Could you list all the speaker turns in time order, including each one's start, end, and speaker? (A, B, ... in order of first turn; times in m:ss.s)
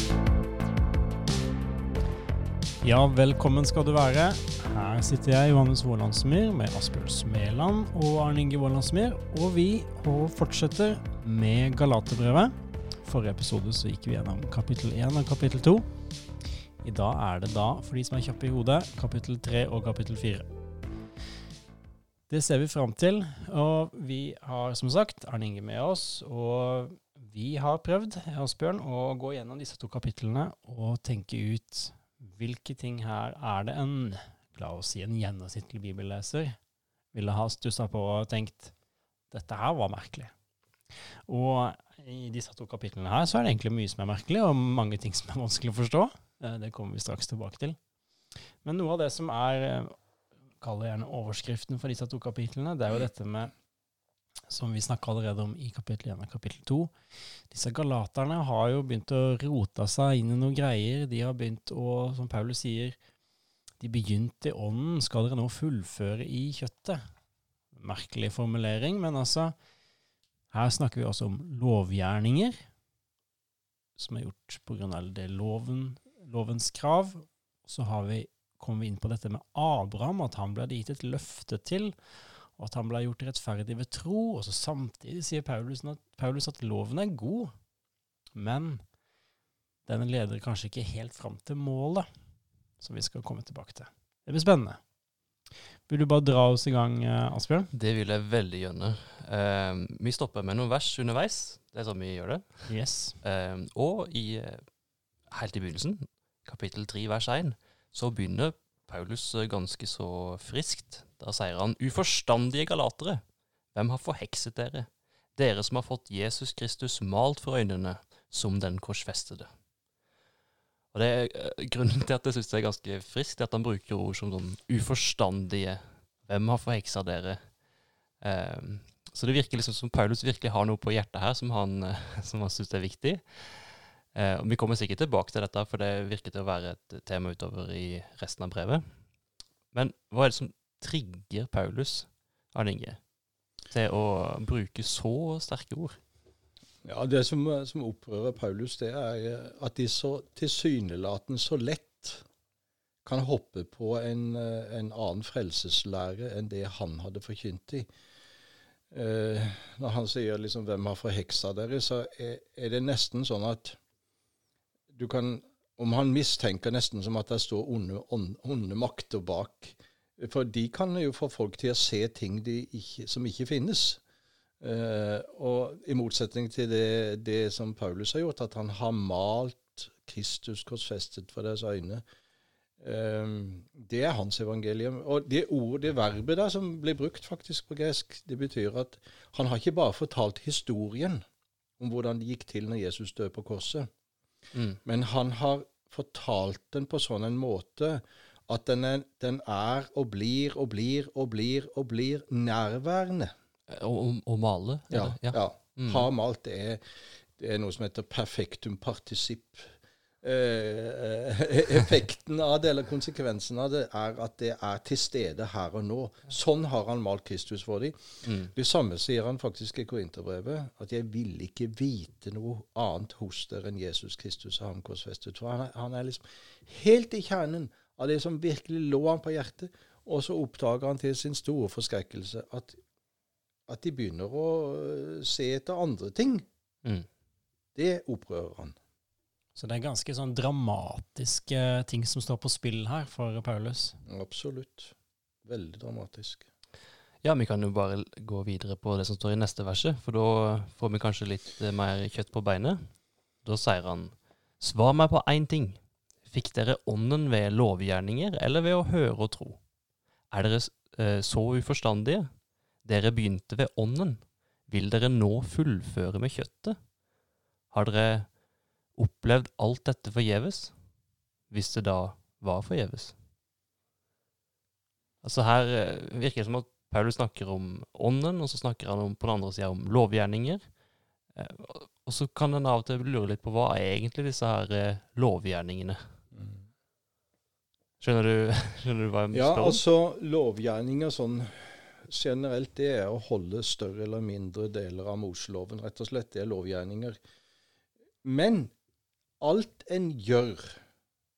0:02.8-0:15.9 A
0:16.8-0:20.5 A
0:22.3-0:36.6 A
0:37.1-0:38.7 A
0:39.3-0:40.3 A
0:41.3-0:47.8 A
0:48.6-0:49.9 A
0:50.6-0:53.5 A
0:54.5-0:56.9 A
0:57.5-1:03.0 A
1:03.8-1:07.0 A
1:07.7-1:09.5 A
1:10.5-1:12.6 A
1:14.0-1:21.9 A
1:22.5-1:27.5 A
1:28.3-1:28.8 A
1:29.8-1:32.1 A
1:32.8-1:34.8 A
1:35.9-1:37.7 A
1:37.7-1:44.6 B
1:42.7-1:43.2 A
1:45.3-1:53.2 B
1:53.7-1:59.5 B
2:00.9-2:07.5 B
2:08.2-2:18.8 B
2:19.7-2:23.0 B
2:23.7-2:26.0 B
2:26.8-2:32.2 C
2:33.0-2:37.9 C
2:38.9-2:43.8 C
2:44.9-2:54.0 C
2:54.6-3:02.0 C
3:02.8-3:11.2 C
3:11.8-3:13.9 C
3:14.5-3:14.8 B
3:14.8-3:23.3 C
3:23.7-3:26.1 B
3:24.9-3:52.8 C
3:38.2-3:38.5 B
3:53.7-3:56.4 C
3:57.7-3:58.8 C
3:59.6-4:04.0 A
4:04.0-4:06.5 C
4:07.2-4:12.8 B
4:13.4-4:19.6 B
4:20.3-4:22.3 B
4:22.8-4:26.8 B
4:27.7-4:28.3 B
4:29.0-4:30.7 B
4:31.5-4:33.2 B
4:35.2-4:40.6 B
4:41.3-4:46.0 B
4:46.3-4:46.6 C
4:48.0-4:49.8 B
4:49.3-4:57.2 C
4:58.2-4:58.7 C
4:59.4-5:00.8 C